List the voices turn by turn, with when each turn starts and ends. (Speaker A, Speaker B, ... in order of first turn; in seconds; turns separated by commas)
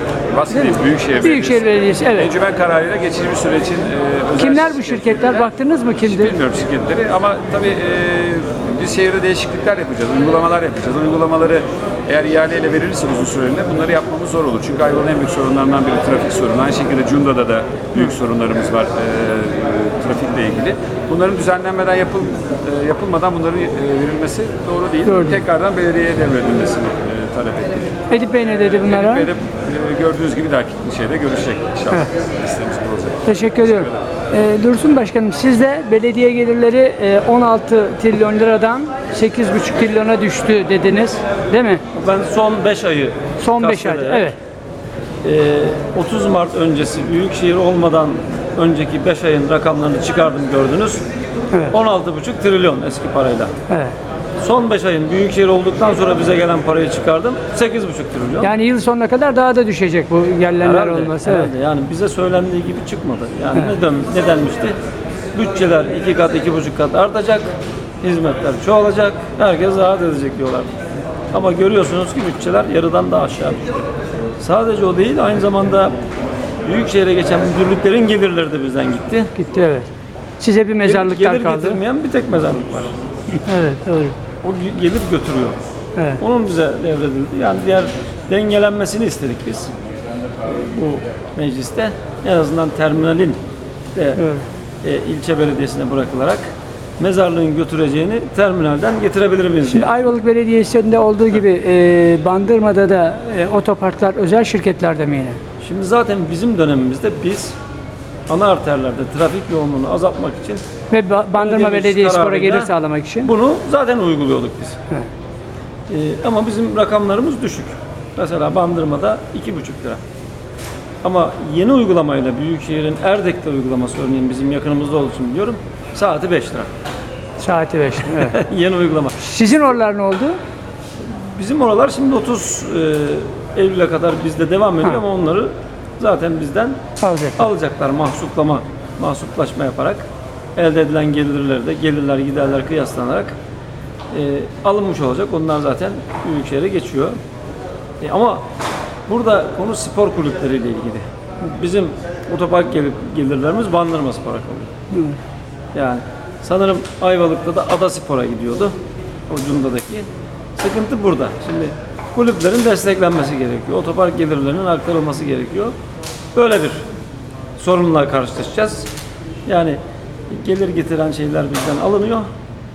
Speaker A: 0.3-5.5, Speaker B: 0.5-2.3, Speaker B: 4.4-6.4, Speaker A: 6.0-27.9, Speaker B: 25.1-25.4, Speaker B: 28.1-29.3, Speaker A: 28.7-34.0, Speaker B: 33.2-41.8, Speaker C: 41.9-44.3, Speaker B: 43.4-44.4, Speaker C: 45.2-51.0, Speaker C: 51.7-53.5, Speaker B: 53.7-53.9, Speaker C: 54.4-58.5, Speaker B: 58.4-61.5, Speaker C: 60.6-64.7, Speaker C: 65.3-70.7, Speaker C: 71.3-73.8, Speaker C: 74.4-75.9, Speaker C: 76.6-79.3, Speaker B: 79.3-79.9, Speaker B: 80.4-81.8, Speaker C: 80.8-82.9, Speaker B: 83.3-84.2, Speaker C: 84.4-85.6, Speaker B: 86.0-86.2, Speaker C: 86.2-89.7, Speaker C: 90.4-93.4, Speaker C: 93.9-94.2, Speaker B: 94.2-94.4, Speaker C: 94.8-96.4, Speaker C: 97.0-100.1, Speaker B: 99.7-105.4, Speaker C: 105.6-107.5, Speaker C: 108.3-110.6, Speaker B: 110.9-113.3, Speaker C: 111.3-114.8, Speaker C: 115.9-120.0, Speaker C: 121.0-126.7, Speaker B: 127.4-128.4, Speaker C: 128.1-129.2, Speaker B: 129.2-130.4, Speaker C: 131.2-136.8, Speaker B: 137.0-137.5, Speaker C: 137.4-143.3, Speaker C: 144.1-147.2, Speaker C: 148.0-148.4, Speaker C: 149.1-154.7, Speaker B: 154.9-155.2, Speaker C: 155.7-158.7, Speaker C: 159.3-165.7, Speaker C: 166.3-166.8, Speaker C: 167.6-168.9, Speaker C: 169.4-169.8, Speaker C: 170.3-172.3